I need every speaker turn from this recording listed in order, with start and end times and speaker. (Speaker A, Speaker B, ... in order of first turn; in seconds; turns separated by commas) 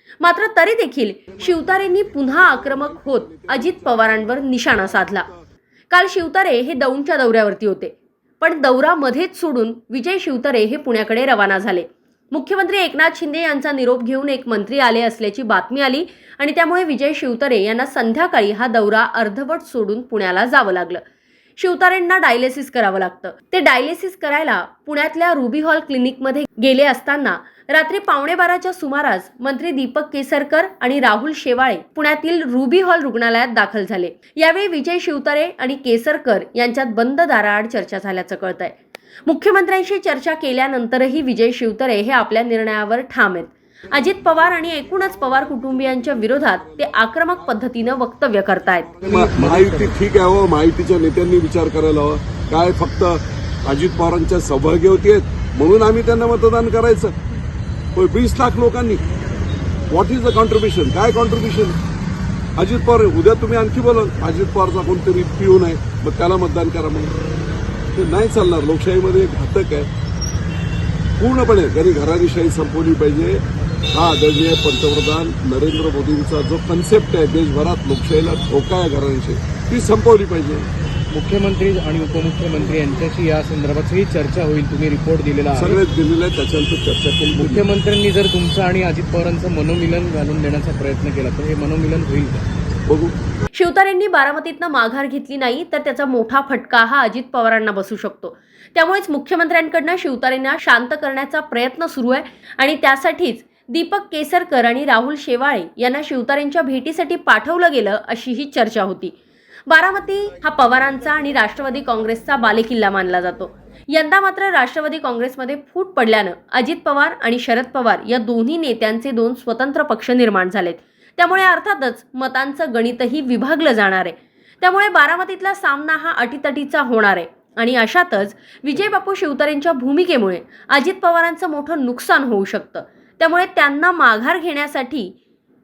Speaker A: 0.2-5.3, Speaker B: 2.4-5.4, Speaker A: 5.9-21.0, Speaker A: 21.6-48.9, Speaker B: 45.3-47.3, Speaker B: 48.9-57.1, Speaker C: 49.0-50.0, Speaker B: 57.9-59.0, Speaker B: 59.9-61.8, Speaker B: 62.6-67.2, Speaker B: 67.9-69.9, Speaker B: 71.2-80.7, Speaker C: 81.1-85.8, Speaker B: 85.5-87.6, Speaker C: 87.4-92.5, Speaker B: 92.9-93.1, Speaker A: 93.5-109.2, Speaker A: 109.7-135.2